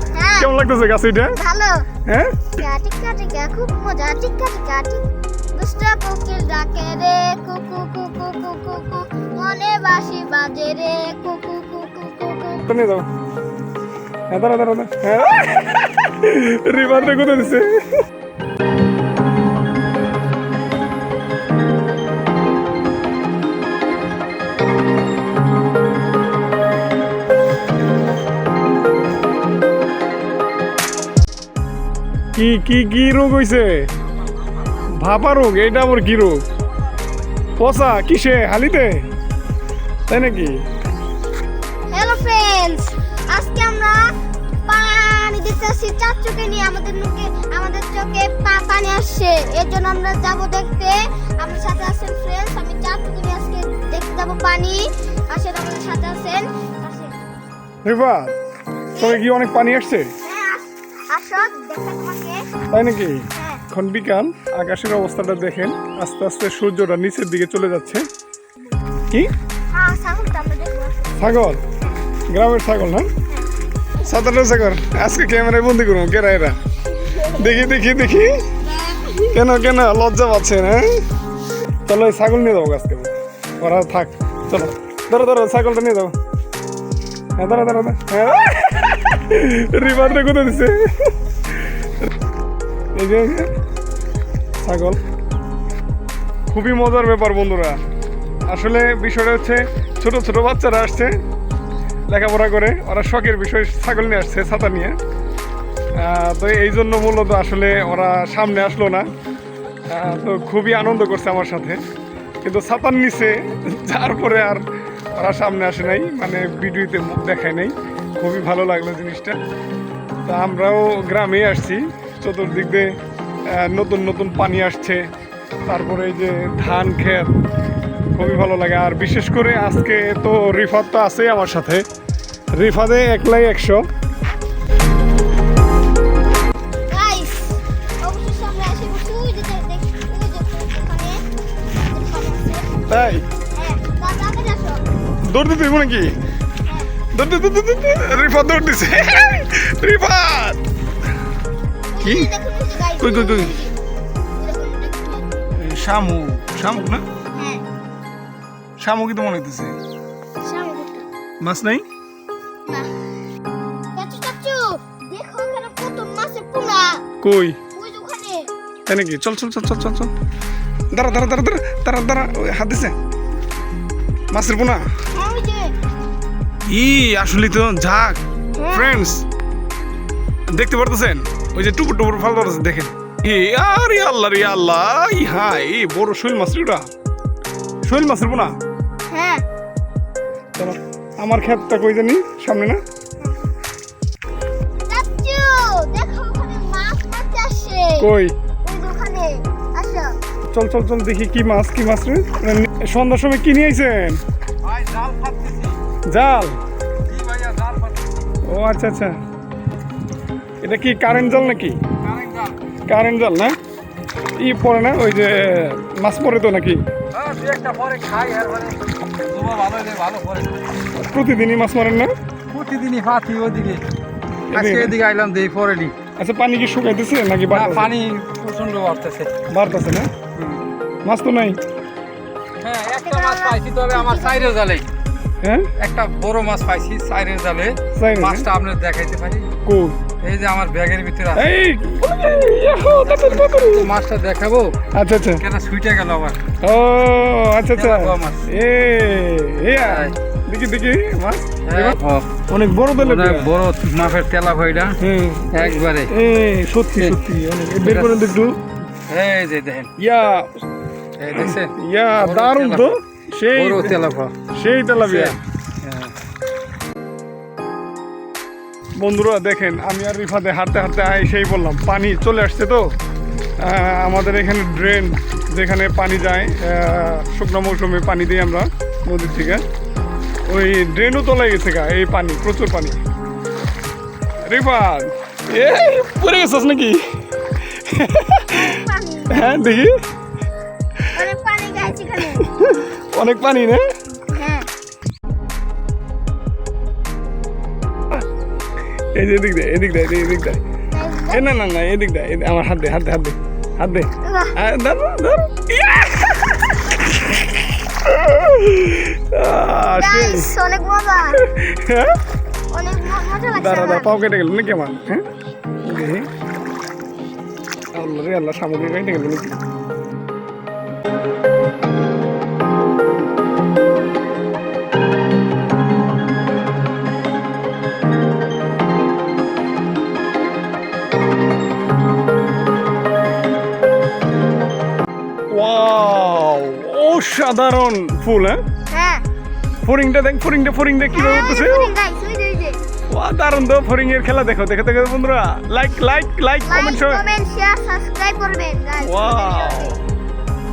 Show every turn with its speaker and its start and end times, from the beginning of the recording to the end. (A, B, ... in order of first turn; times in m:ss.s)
0:00.1-0:00.5 A
0:00.4-0:01.4 B
0:01.4-0:01.9 A
0:02.1-0:02.6 B
0:02.6-0:05.0 A
0:05.6-0:12.7 A
0:12.6-0:13.1 B
0:14.3-0:17.8 B
0:32.4-0:33.9 B
0:34.8-0:36.4 B
0:37.6-0:39.1 B
0:40.1-0:40.6 B
0:41.9-0:44.2 A
0:44.7-0:57.2 A
0:57.8-0:58.3 B
0:59.0-0:59.2 A
0:59.0-1:00.1 B
1:00.2-1:02.5 A
1:02.7-1:08.0 B
1:03.4-1:03.6 A
1:09.7-1:11.4 A
1:11.2-1:11.6 B
1:12.3-1:13.1 B
1:14.0-1:16.6 B
1:17.0-1:17.3 A
1:17.3-1:18.4 B
1:18.7-1:19.4 A
1:19.3-1:21.0 B
1:21.9-1:26.1 B
1:27.4-1:32.1 B
1:33.0-1:33.5 B
1:34.6-1:35.0 B
1:36.5-1:37.8 B
1:38.5-1:41.1 B
1:42.1-1:45.0 B
1:46.0-1:49.1 B
1:49.9-1:51.8 B
1:52.4-1:54.6 B
1:55.2-1:59.4 B
2:00.3-2:02.9 B
2:03.5-2:05.1 B
2:05.7-2:07.4 B
2:08.2-2:11.8 B
2:12.6-2:13.8 B
2:16.9-2:21.2 A
2:21.9-2:22.8 A
2:22.9-2:23.2 B
2:23.6-2:24.8 A
2:25.2-2:26.2 B
2:27.1-2:30.6 B
2:31.9-2:33.7 A
2:32.0-2:32.3 B
2:33.0-2:33.5 B
2:34.4-2:35.4 A
2:35.6-2:37.0 B
2:37.4-2:37.6 A
2:38.8-2:39.8 B
2:40.4-2:41.1 A
2:41.4-2:41.8 B
2:44.0-2:47.0 A
2:47.2-2:47.6 B
2:47.7-2:48.5 A
2:48.9-2:50.1 B
2:50.9-2:53.0 B
2:54.3-2:54.8 B
2:55.2-2:55.8 A
2:56.7-2:58.2 B
2:58.6-2:58.9 A
2:58.7-2:59.2 B
3:00.5-3:06.8 B
3:07.8-3:08.5 B
3:09.1-3:09.4 A
3:10.6-3:12.8 B
3:13.2-3:13.5 A
3:14.9-3:18.1 A
3:18.0-3:18.4 B
3:18.6-3:20.1 A
3:20.5-3:24.2 B
3:24.6-3:25.8 C
3:26.1-3:26.6 B
3:27.0-3:28.1 C
3:28.4-3:29.2 B
3:30.6-3:31.8 B
3:32.0-3:32.6 C
3:32.9-3:33.6 B
3:34.4-3:36.8 B
3:37.1-3:40.6 C
3:41.0-3:42.1 B
3:42.5-3:43.8 C
3:44.5-3:45.0 B
3:44.5-3:45.9 C
3:46.2-3:47.9 B
3:47.5-3:49.3 C
3:49.5-3:50.1 B
3:51.0-3:51.6 B
3:52.6-3:54.8 C
3:53.0-3:54.5 A
3:55.4-3:55.7 B
3:55.8-3:59.5 C
3:58.0-3:58.5 B
3:59.6-4:00.0 B
4:00.2-4:01.5 C
4:01.4-4:03.9 B
4:02.8-4:04.8 C
4:04.9-4:05.4 B
4:05.4-4:06.4 C
4:06.6-4:13.5 B
4:07.7-4:08.5 C
4:09.8-4:10.2 C
4:11.7-4:12.3 C
4:13.0-4:15.0 C
4:15.0-4:18.6 B
4:15.5-4:16.1 C
4:17.8-4:18.3 C
4:19.1-4:19.9 C
4:20.0-4:20.5 B
4:21.2-4:22.9 C
4:21.3-4:24.0 B
4:23.5-4:24.3 C
4:24.5-4:25.4 B
4:25.0-4:26.1 C
4:29.0-4:32.9 B
4:33.6-4:39.6 B
4:40.5-4:43.0 B
4:44.4-4:48.7 B
4:48.5-4:49.6 A
4:49.3-4:50.0 B
4:51.1-4:52.5 A
4:52.6-4:53.8 B
4:54.3-4:54.7 A
4:59.2-5:00.6 B
5:00.9-5:01.4 A
5:01.3-5:10.5 B
5:04.2-5:04.6 A
5:10.0-5:11.4 A
5:11.4-5:12.2 B
5:12.7-5:14.2 A
5:13.5-5:15.2 B
5:15.8-5:16.3 B
5:17.9-5:19.6 B
5:35.5-5:38.6 B
5:38.9-5:39.2 A
5:39.8-5:41.9 B
5:41.1-5:42.8 A
5:43.1-5:47.2 B
5:46.7-5:50.0 A
5:49.0-5:50.0 B